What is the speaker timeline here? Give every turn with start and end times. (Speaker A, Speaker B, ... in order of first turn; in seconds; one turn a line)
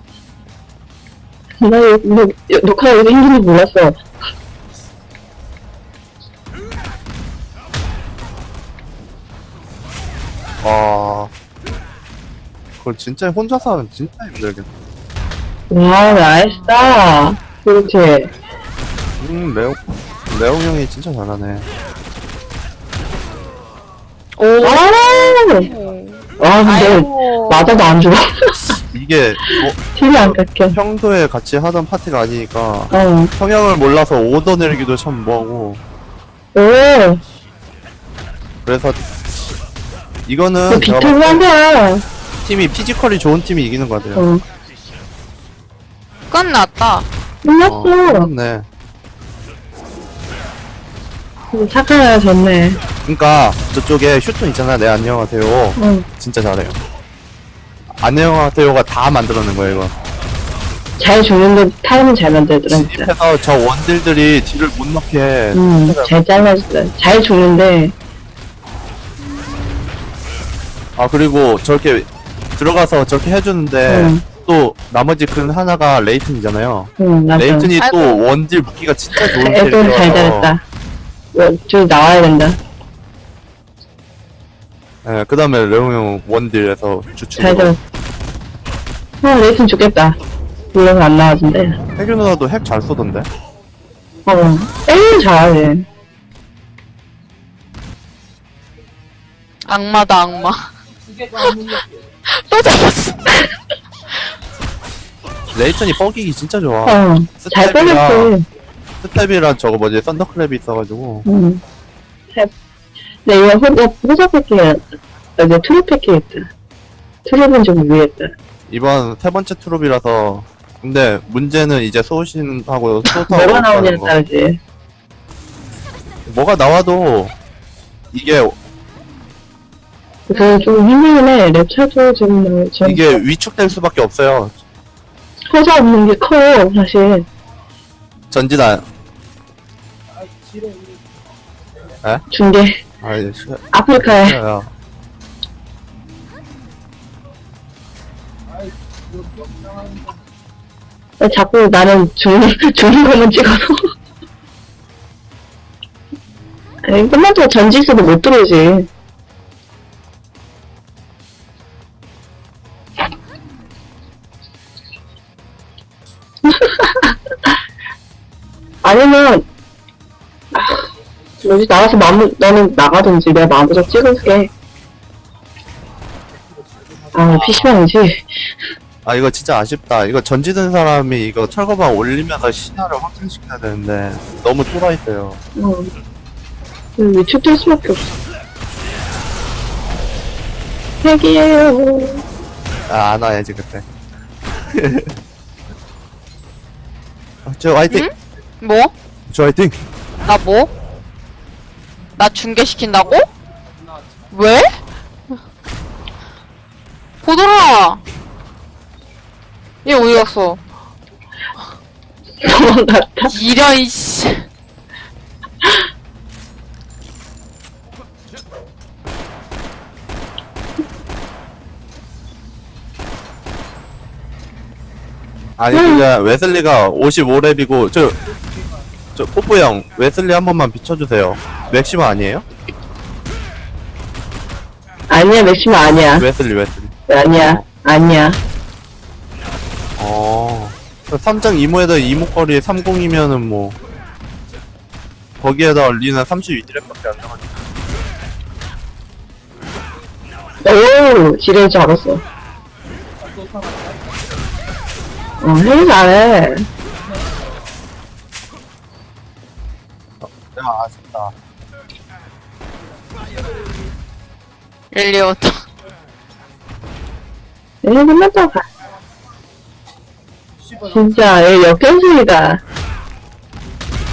Speaker A: 1.6-4.0
Speaker B: 10.6-11.3
Speaker B: 12.8-14.7
Speaker A: 15.7-18.3
Speaker C: 16.4-16.9
Speaker B: 19.2-21.7
Speaker C: 24.4-27.9
Speaker A: 24.6-25.7
Speaker A: 26.4-28.7
Speaker B: 28.9-35.8
Speaker A: 29.5-30.8
Speaker A: 32.9-33.3
Speaker A: 36.5-37.2
Speaker B: 38.6-39.0
Speaker B: 40.2-41.5
Speaker A: 40.7-42.0
Speaker B: 42.4-44.2
Speaker A: 44.1-44.4
Speaker C: 46.3-47.1
Speaker A: 47.4-48.3
Speaker B: 47.6-48.6
Speaker A: 51.5-52.8
Speaker B: 53.0-56.8
Speaker A: 55.8-56.0
Speaker B: 58.0-59.9
Speaker A: 61.0-63.1
Speaker B: 62.7-66.5
Speaker A: 65.5-67.9
Speaker B: 71.0-80.5
Speaker A: 73.9-74.2
Speaker A: 77.0-77.7
Speaker C: 77.8-78.2
Speaker A: 79.1-80.6
Speaker A: 81.3-82.6
Speaker B: 85.0-87.7
Speaker A: 87.3-87.8
Speaker A: 89.2-90.2
Speaker A: 90.7-91.8
Speaker B: 92.0-93.3
Speaker A: 94.2-95.8
Speaker C: 99.7-100.7
Speaker C: 101.4-103.5
Speaker B: 105.5-108.3
Speaker A: 106.8-108.5
Speaker B: 109.0-111.2
Speaker A: 111.2-111.6
Speaker A: 113.2-114.8
Speaker A: 115.4-116.5
Speaker A: 117.2-118.3
Speaker B: 118.7-124.1
Speaker A: 123.3-124.6
Speaker B: 126.2-127.3
Speaker B: 128.1-128.6
Speaker A: 130.3-133.2
Speaker B: 132.8-134.6
Speaker A: 135.5-137.3
Speaker B: 138.3-138.9
Speaker A: 142.3-142.8
Speaker B: 143.0-144.7
Speaker A: 143.7-144.4
Speaker A: 151.2-153.8
Speaker A: 156.8-158.9
Speaker A: 166.6-167.1
Speaker A: 168.8-169.4
Speaker A: 170.5-170.8
Speaker A: 171.4-174.5
Speaker A: 177.1-178.5
Speaker B: 177.3-177.7
Speaker B: 179.0-185.4
Speaker A: 185.6-185.9
Speaker A: 187.0-188.1
Speaker A: 191.0-192.2
Speaker B: 192.9-193.8
Speaker B: 194.7-195.1
Speaker B: 197.4-198.1
Speaker C: 197.9-198.9
Speaker B: 199.3-199.8
Speaker C: 200.2-200.7
Speaker C: 202.2-203.3
Speaker C: 204.3-204.8
Speaker C: 207.2-208.0
Speaker C: 209.8-210.6
Speaker A: 212.4-213.3
Speaker C: 213.3-214.5
Speaker B: 225.6-228.2
Speaker A: 225.7-226.1
Speaker B: 229.2-232.4
Speaker A: 235.1-236.3
Speaker B: 236.2-237.7
Speaker A: 237.1-238.4
Speaker B: 240.0-243.8
Speaker B: 245.4-247.6
Speaker A: 250.6-252.2
Speaker A: 255.4-256.7
Speaker B: 260.2-261.3
Speaker C: 264.9-265.6
Speaker A: 267.8-268.6
Speaker A: 270.8-272.6